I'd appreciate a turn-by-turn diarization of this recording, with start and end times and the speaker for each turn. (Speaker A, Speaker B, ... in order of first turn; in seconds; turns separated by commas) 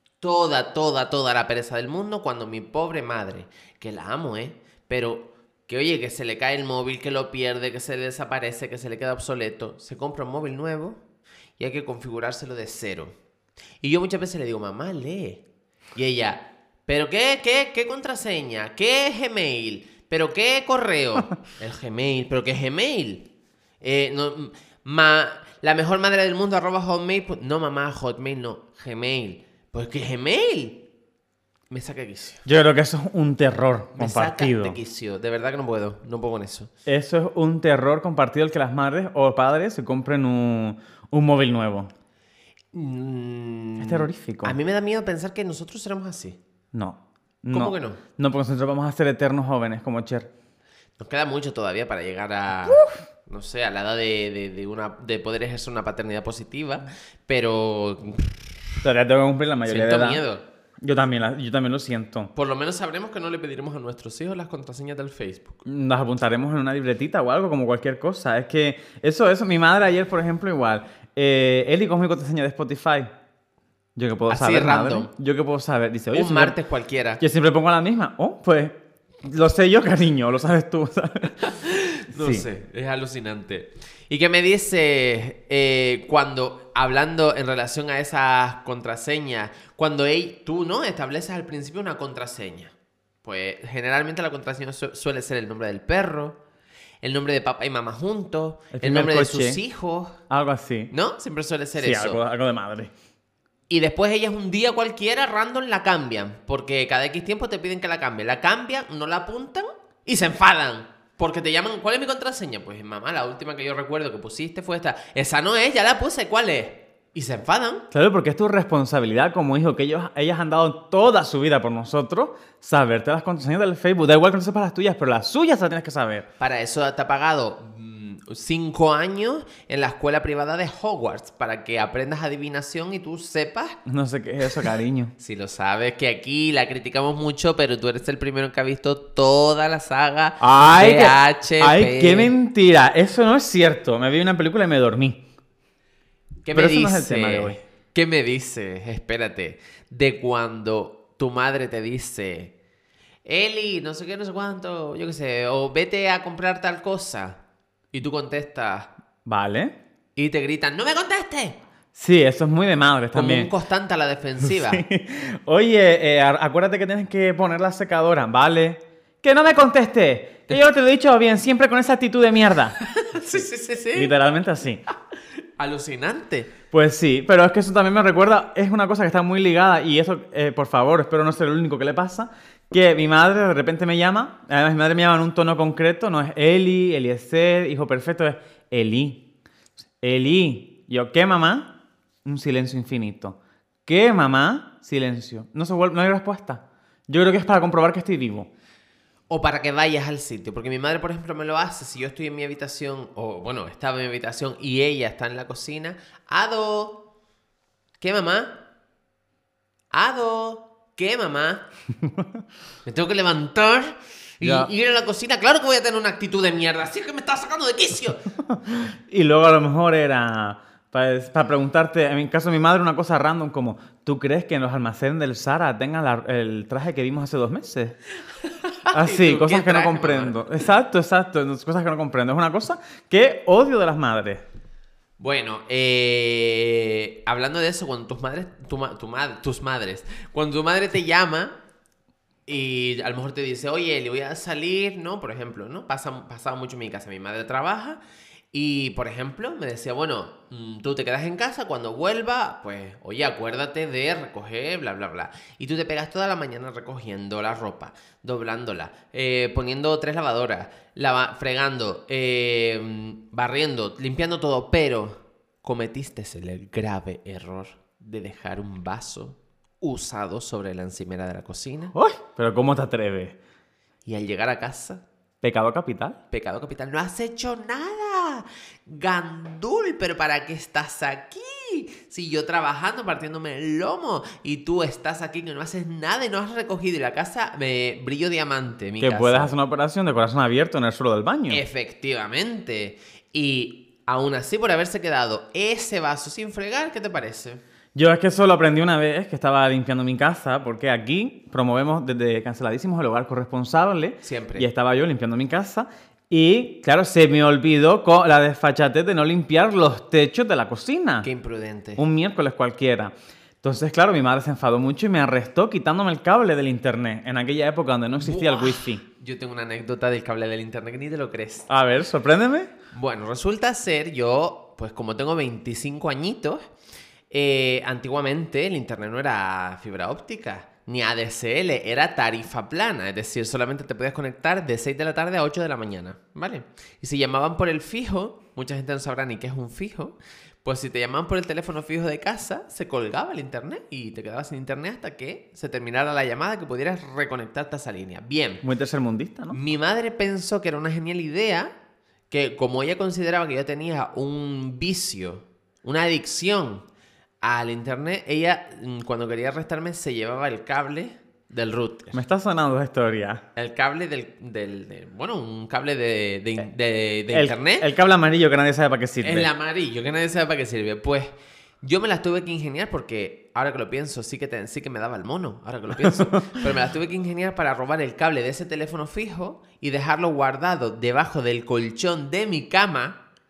Speaker A: 0.2-11.0, Speaker A: 11.6-13.1, Speaker A: 13.8-15.4, Speaker A: 15.9-23.3, Speaker A: 23.8-30.8, Speaker A: 31.7-32.4, Speaker B: 32.4-34.8, Speaker A: 33.9-36.7, Speaker B: 36.9-41.9, Speaker A: 42.7-46.4, Speaker B: 43.8-44.6, Speaker B: 46.7-50.3, Speaker A: 47.5-48.0, Speaker A: 51.0-58.3, Speaker B: 58.8-60.2, Speaker A: 59.6-60.4, Speaker B: 60.8-62.3, Speaker A: 62.3-65.6, Speaker B: 65.6-73.1, Speaker B: 74.0-76.5, Speaker A: 74.3-75.1, Speaker A: 76.1-77.2, Speaker B: 77.2-81.4, Speaker A: 81.4-96.4, Speaker B: 82.1-82.5, Speaker A: 97.0-100.2, Speaker B: 98.7-99.6, Speaker B: 100.3-100.9, Speaker A: 100.9-102.2, Speaker B: 101.8-102.9, Speaker A: 103.7-117.8, Speaker B: 117.9-126.3, Speaker A: 126.4-133.8, Speaker B: 133.8-135.1, Speaker A: 135.2-142.3, Speaker B: 140.4-145.2, Speaker A: 146.4-152.5, Speaker B: 146.5-147.6, Speaker A: 153.2-157.4, Speaker A: 157.9-158.9, Speaker B: 159.2-159.7, Speaker A: 160.2-161.6, Speaker B: 161.9-163.5, Speaker A: 163.1-164.8, Speaker B: 164.4-172.8, Speaker A: 172.8-174.1, Speaker B: 173.9-174.8, Speaker A: 175.6-176.5, Speaker B: 176.7-189.2, Speaker B: 190.0-191.7, Speaker B: 192.2-198.5, Speaker A: 199.3-207.0, Speaker A: 208.0-208.6, Speaker A: 209.9-211.6, Speaker A: 212.8-218.2, Speaker B: 214.4-214.7, Speaker B: 218.5-228.0, Speaker A: 228.4-230.4, Speaker B: 228.9-234.4, Speaker A: 235.2-241.6, Speaker A: 242.5-248.0, Speaker A: 248.5-271.9, Speaker B: 271.9-273.4, Speaker A: 274.0-275.0, Speaker B: 275.4-276.2, Speaker A: 276.3-289.5, Speaker B: 289.0-291.6, Speaker A: 291.5-297.6, Speaker B: 297.9-311.3, Speaker A: 304.2-304.7, Speaker A: 311.2-312.0, Speaker B: 312.0-319.0, Speaker A: 318.2-321.6, Speaker B: 321.7-322.7, Speaker A: 322.9-326.7, Speaker A: 327.3-348.6, Speaker B: 348.6-349.6, Speaker A: 349.5-351.7, Speaker A: 352.3-356.8, Speaker A: 357.4-362.1, Speaker B: 362.1-363.4, Speaker A: 363.6-367.9, Speaker B: 367.3-369.5, Speaker A: 369.2-383.2, Speaker B: 376.0-376.6